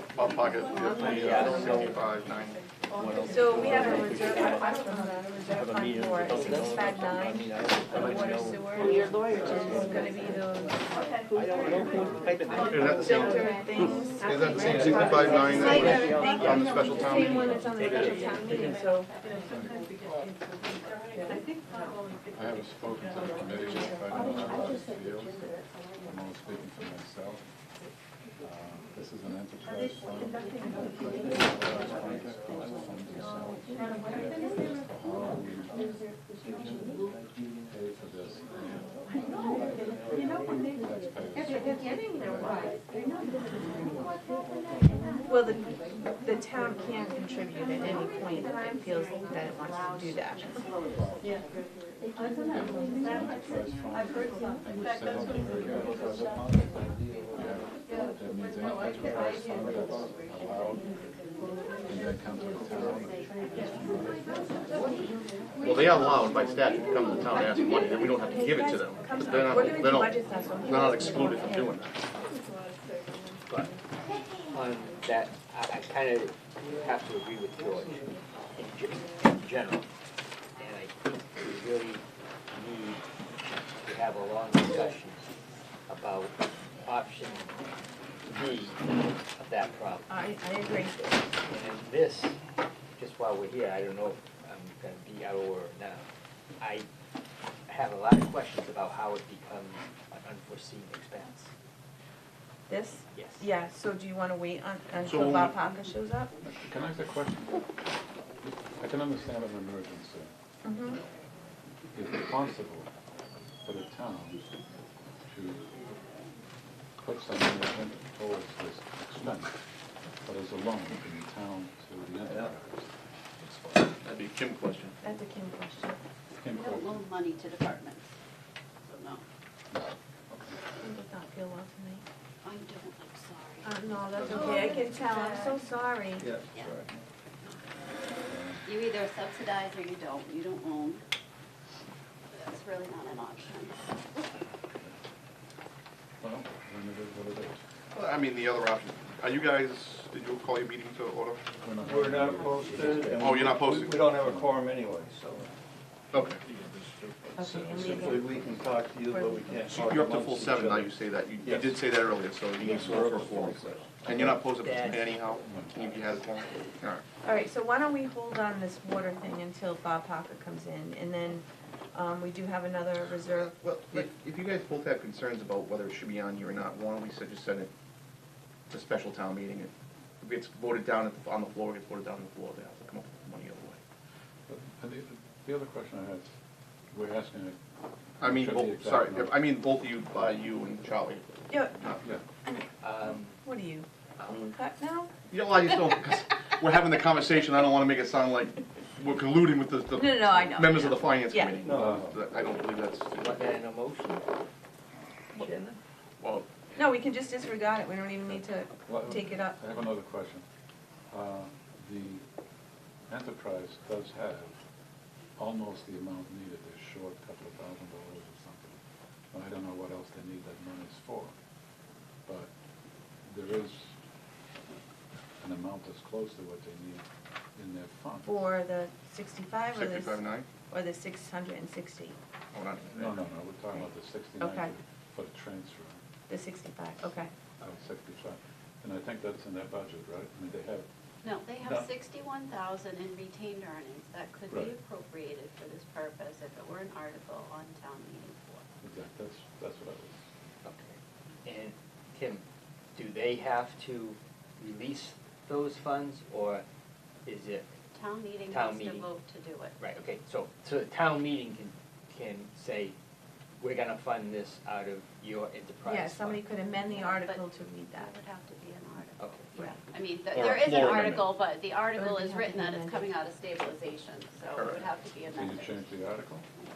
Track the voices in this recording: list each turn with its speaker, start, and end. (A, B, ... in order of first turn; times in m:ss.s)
0:00.2-0:02.6 A
0:01.1-0:01.8 B
0:03.2-0:09.1 C
0:09.7-0:10.8 C
0:11.4-0:12.7 B
0:12.7-0:13.5 A
0:12.9-0:19.1 C
0:14.2-0:17.6 A
0:15.5-0:18.6 B
0:22.3-0:25.4 D
0:26.0-0:27.5 D
0:28.4-0:35.8 D
0:37.7-0:38.8 D
0:40.5-0:42.6 D
0:43.5-0:44.1 D
0:45.3-0:45.7 C
0:46.2-0:50.7 C
0:50.9-0:51.3 D
0:52.5-0:56.6 D
0:57.3-1:00.9 D
1:01.9-1:04.3 D
1:05.6-1:12.0 A
1:07.8-1:11.7 C
1:13.5-1:13.7 B
1:14.5-1:18.0 B
1:18.6-1:19.9 B
1:20.6-1:23.0 B
1:23.8-1:25.3 B
1:25.9-1:27.5 B
1:28.3-1:30.1 B
1:30.1-1:31.4 C
1:31.5-1:32.4 B
1:33.0-1:36.1 B
1:36.6-1:36.9 B
1:37.7-1:41.5 B
1:42.7-1:46.3 C
1:43.1-1:43.5 B
1:45.0-1:45.5 A
1:46.4-1:47.6 D
1:48.4-1:50.3 D
1:50.6-1:51.0 C
1:51.9-1:52.9 D
1:53.6-1:54.4 D
1:55.3-1:55.6 D
1:57.0-1:59.6 D
2:00.2-2:02.9 D
2:03.4-2:05.0 A
2:05.0-2:06.0 C
2:06.4-2:06.9 D
2:06.5-2:08.1 E
2:08.8-2:09.2 E
2:09.7-2:10.6 D
2:10.8-2:12.0 C
2:12.4-2:15.6 E
2:13.6-2:16.3 C
2:14.2-2:14.6 A
2:16.2-2:16.9 F
2:18.3-2:18.6 D
2:18.6-2:21.0 E
2:22.3-2:24.2 E
2:26.2-2:27.6 D
2:27.9-2:31.4 A
2:31.6-2:34.7 D
2:31.8-2:35.5 F
2:33.2-2:34.1 A
2:36.1-2:36.4 A
2:37.4-2:38.4 C
2:37.7-2:38.1 A
2:37.8-2:38.4 D
2:37.9-2:41.8 F
2:39.1-2:39.7 C
2:39.7-2:47.0 A
2:42.6-2:44.4 F
2:44.6-2:45.2 B
2:45.4-2:45.8 D
2:47.2-2:53.5 C
2:53.2-2:57.7 A
2:58.7-3:03.8 A
3:04.5-3:06.3 D
3:06.9-3:07.6 D
3:08.2-3:09.4 D
3:08.2-3:12.1 A
3:11.5-3:11.8 C
3:12.8-3:13.4 B
3:13.2-3:15.1 C
3:15.3-3:23.6 A
3:20.0-3:21.6 C
3:21.6-3:22.1 F
3:21.7-3:22.1 D
3:23.2-3:24.2 B
3:25.3-3:25.8 B
3:26.2-3:26.5 A
3:26.8-3:29.6 C
3:28.8-3:30.4 D
3:31.1-3:32.2 D
3:33.1-3:34.6 D
3:35.4-3:38.8 D
3:39.3-3:41.3 D
3:43.3-3:43.9 D
3:45.4-3:47.0 D
3:47.6-3:48.4 D
3:48.3-3:52.2 C
3:49.7-3:50.5 A
3:52.5-3:53.2 A
3:52.9-3:56.0 D
3:54.4-3:54.7 C
3:56.3-3:57.3 C
3:57.6-4:00.9 D
4:01.2-4:08.6 E
4:01.6-4:01.9 D
4:08.8-4:10.2 D
4:10.6-4:12.4 B
4:13.0-4:16.6 B
4:17.2-4:17.8 B
4:17.9-4:19.8 E
4:18.5-4:19.1 B
4:19.8-4:23.0 B
4:23.6-4:26.4 B
4:25.8-4:28.1 C
4:26.7-4:35.9 E
4:29.2-4:29.5 B
4:30.3-4:31.4 A
4:31.9-4:33.1 C
4:34.5-4:34.9 A
4:35.3-4:36.5 D